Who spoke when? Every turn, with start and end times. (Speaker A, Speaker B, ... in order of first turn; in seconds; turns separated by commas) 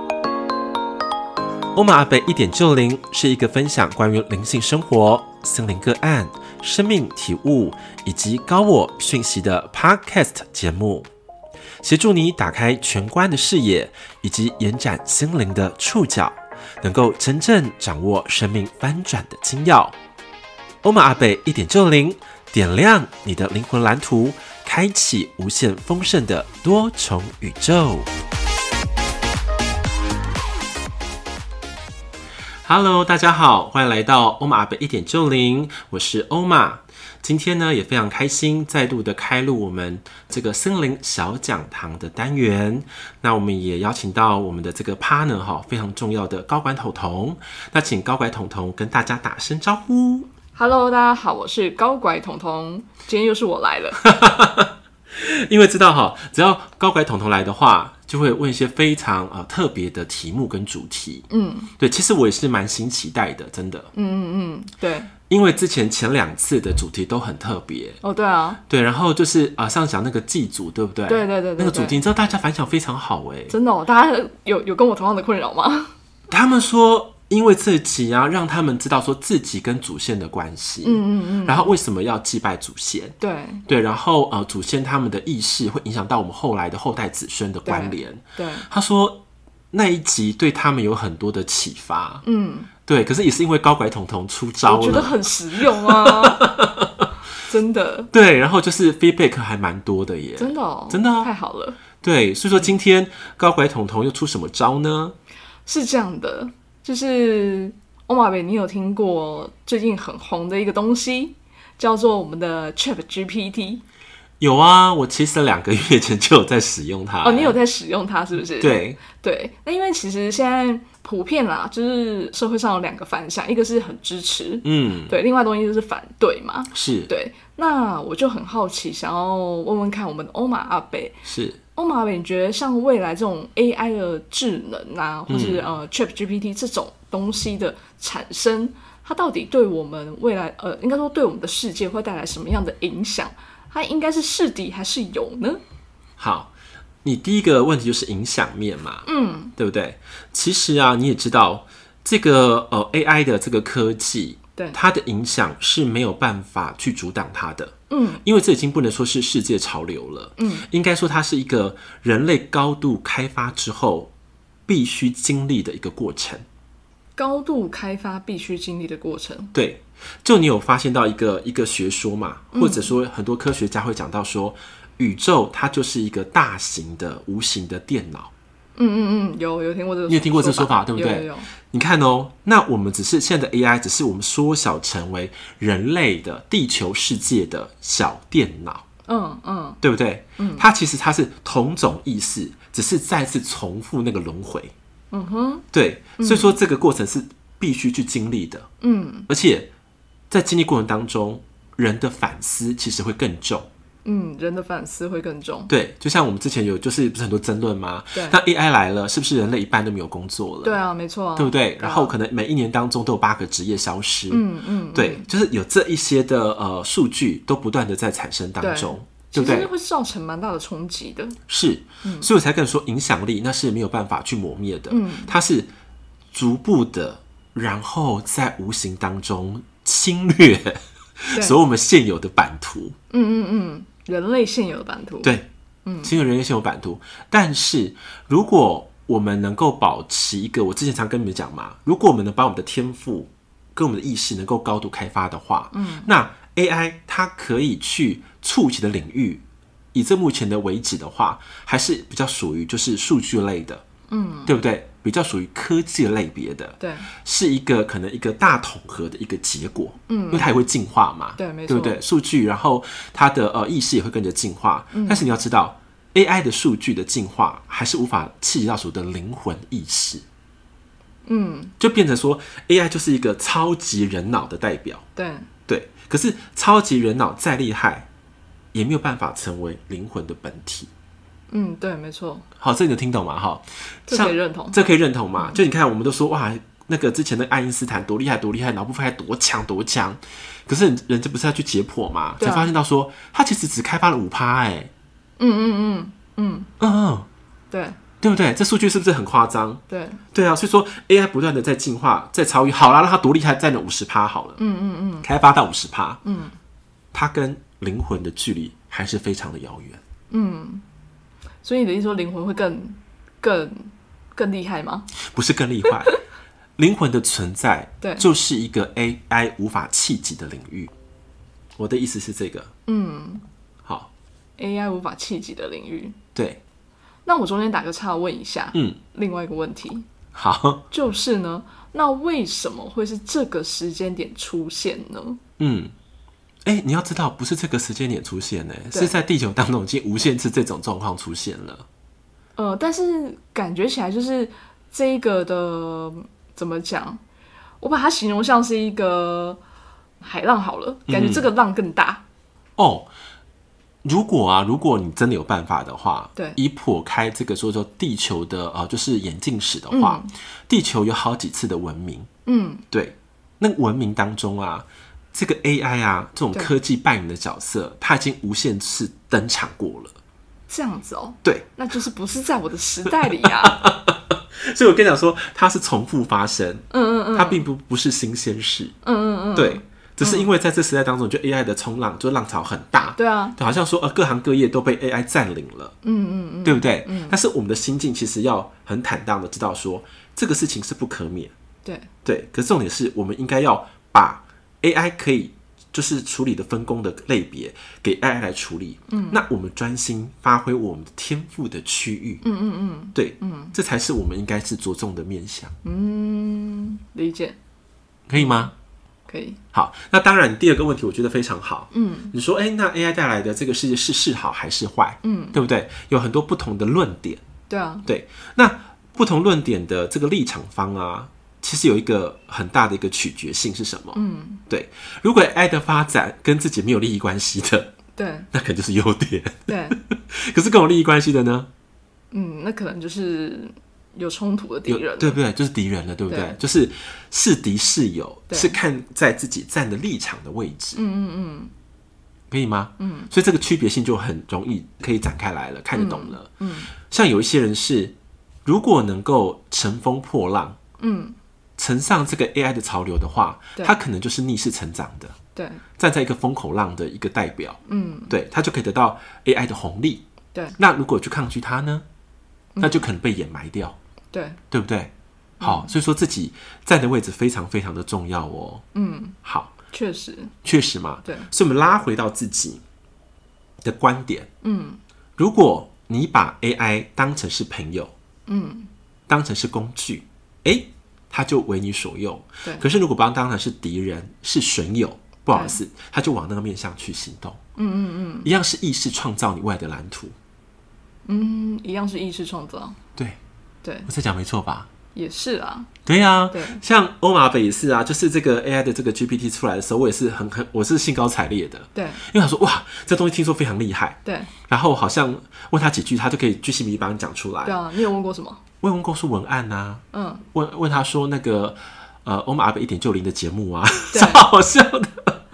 Speaker A: 1.8-11.1, Speaker A: 11.8-19.9, Speaker A: 20.8-28.1, Speaker A: 32.7-50.3, Speaker B: 50.5-54.0, Speaker A: 54.0-63.9, Speaker B: 61.3-61.7, Speaker B: 63.9-65.1, Speaker A: 65.3-68.0, Speaker B: 68.0-68.6, Speaker A: 68.7-73.6, Speaker B: 71.1-72.0, Speaker B: 73.5-75.9, Speaker A: 76.3-92.2, Speaker B: 80.8-81.8, Speaker B: 83.2-83.7, Speaker B: 87.7-88.7, Speaker B: 92.2-92.7, Speaker A: 92.9-97.1, Speaker B: 94.7-96.5, Speaker B: 97.4-98.1, Speaker A: 98.1-101.3, Speaker B: 100.4-101.8, Speaker A: 102.0-105.2, Speaker B: 105.7-113.8, Speaker A: 114.4-117.6, Speaker B: 117.2-131.2, Speaker A: 118.6-119.0, Speaker A: 124.6-125.2, Speaker A: 126.7-127.1, Speaker A: 131.2-131.6, Speaker B: 131.8-145.6, Speaker A: 135.3-135.7, Speaker A: 146.2-146.5, Speaker A: 147.0-164.1, Speaker B: 149.1-149.5, Speaker B: 157.9-158.2, Speaker B: 160.4-160.7, Speaker A: 164.7-166.4, Speaker B: 167.2-169.5, Speaker A: 169.5-178.3, Speaker B: 172.5-172.9, Speaker B: 178.8-181.5, Speaker A: 180.1-188.8, Speaker B: 189.1-189.8, Speaker A: 189.8-194.7, Speaker B: 190.4-190.7, Speaker B: 195.1-195.7, Speaker A: 195.7-198.7, Speaker B: 196.2-196.6, Speaker B: 198.8-199.3, Speaker A: 199.3-199.7, Speaker A: 200.3-203.7, Speaker B: 204.0-205.7, Speaker A: 205.7-210.8, Speaker B: 208.1-208.4, Speaker B: 210.6-212.1, Speaker A: 211.4-219.7, Speaker B: 214.3-215.3, Speaker B: 218.6-221.4, Speaker A: 221.5-225.7, Speaker B: 222.0-222.3, Speaker B: 224.9-225.3, Speaker A: 226.3-233.0, Speaker B: 233.1-235.3, Speaker A: 235.2-235.5, Speaker B: 235.8-236.1, Speaker A: 236.0-249.4, Speaker B: 245.7-246.1, Speaker A: 249.9-253.8, Speaker B: 254.1-254.5, Speaker A: 254.5-270.2, Speaker B: 256.8-257.1, Speaker B: 260.1-260.5, Speaker B: 261.4-262.0, Speaker B: 264.9-265.2, Speaker B: 271.2-271.8, Speaker A: 271.8-275.1, Speaker B: 275.2-275.5, Speaker A: 275.7-278.1, Speaker A: 278.7-280.9, Speaker B: 281.5-282.5, Speaker A: 282.6-294.9, Speaker B: 284.1-284.8, Speaker B: 292.4-292.7, Speaker B: 295.4-296.7, Speaker A: 296.8-297.3, Speaker B: 297.7-298.0, Speaker A: 298.2-299.8, Speaker B: 299.9-300.2, Speaker A: 300.3-304.6, Speaker B: 304.6-305.3, Speaker A: 305.2-306.2, Speaker B: 306.2-306.6, Speaker A: 307.1-310.0, Speaker B: 310.3-310.8, Speaker B: 311.6-315.1, Speaker A: 315.2-316.2, Speaker A: 316.8-320.9, Speaker B: 318.0-318.3, Speaker A: 321.8-322.7, Speaker B: 322.9-323.4, Speaker A: 323.9-324.1, Speaker B: 324.6-326.2, Speaker A: 326.4-326.6, Speaker B: 327.2-330.1, Speaker A: 328.7-329.0, Speaker A: 330.3-330.9, Speaker B: 330.9-335.4, Speaker A: 335.6-335.9, Speaker A: 336.6-341.9, Speaker B: 342.6-347.2, Speaker B: 347.8-349.6, Speaker B: 350.2-352.2, Speaker A: 351.1-351.5, Speaker A: 352.8-353.1, Speaker A: 354.0-362.3, Speaker B: 359.9-360.3, Speaker B: 362.5-362.9, Speaker A: 362.9-370.1, Speaker B: 370.7-373.8, Speaker A: 373.4-379.0, Speaker B: 376.9-377.6, Speaker B: 379.0-380.5, Speaker A: 379.6-386.0, Speaker B: 383.1-383.6, Speaker B: 386.0-387.4, Speaker A: 386.6-391.5, Speaker B: 391.8-392.1, Speaker A: 392.2-402.4, Speaker B: 399.1-399.4, Speaker B: 402.4-403.8, Speaker A: 403.1-405.7, Speaker B: 405.8-407.6, Speaker A: 408.3-408.7, Speaker B: 408.4-408.7, Speaker B: 409.3-409.6, Speaker A: 409.7-417.4, Speaker B: 411.9-412.3, Speaker B: 415.2-415.6, Speaker B: 417.7-418.1, Speaker A: 418.1-427.9, Speaker B: 424.1-424.6, Speaker B: 428.2-428.5, Speaker A: 428.5-431.7, Speaker B: 429.7-430.0, Speaker B: 432.3-435.4, Speaker A: 434.9-441.0, Speaker B: 436.3-436.6, Speaker B: 438.5-438.8, Speaker B: 440.9-441.7, Speaker A: 442.5-450.8, Speaker B: 443.0-443.3, Speaker B: 445.9-446.9, Speaker B: 451.0-451.4, Speaker A: 451.8-455.4, Speaker B: 455.6-455.8, Speaker A: 456.0-460.2, Speaker B: 457.9-458.3, Speaker A: 460.8-462.1, Speaker B: 462.8-463.1, Speaker A: 462.8-464.0, Speaker B: 464.3-464.6, Speaker A: 464.7-468.8, Speaker B: 468.9-469.4, Speaker A: 469.4-469.7, Speaker B: 469.9-470.5, Speaker A: 470.6-472.8, Speaker B: 471.2-471.5, Speaker A: 473.8-474.5, Speaker B: 474.6-475.0, Speaker A: 475.4-478.1, Speaker B: 478.5-478.9, Speaker A: 479.3-487.6, Speaker B: 485.5-485.8, Speaker B: 487.8-488.5, Speaker A: 488.4-490.3, Speaker B: 491.2-493.0, Speaker B: 493.8-494.1, Speaker A: 494.1-494.9, Speaker B: 495.1-495.9, Speaker A: 496.1-507.8, Speaker B: 496.5-496.8, Speaker B: 501.9-502.2, Speaker B: 504.2-504.5, Speaker B: 507.6-508.6, Speaker A: 508.8-515.4, Speaker B: 510.1-510.4, Speaker B: 514.1-514.4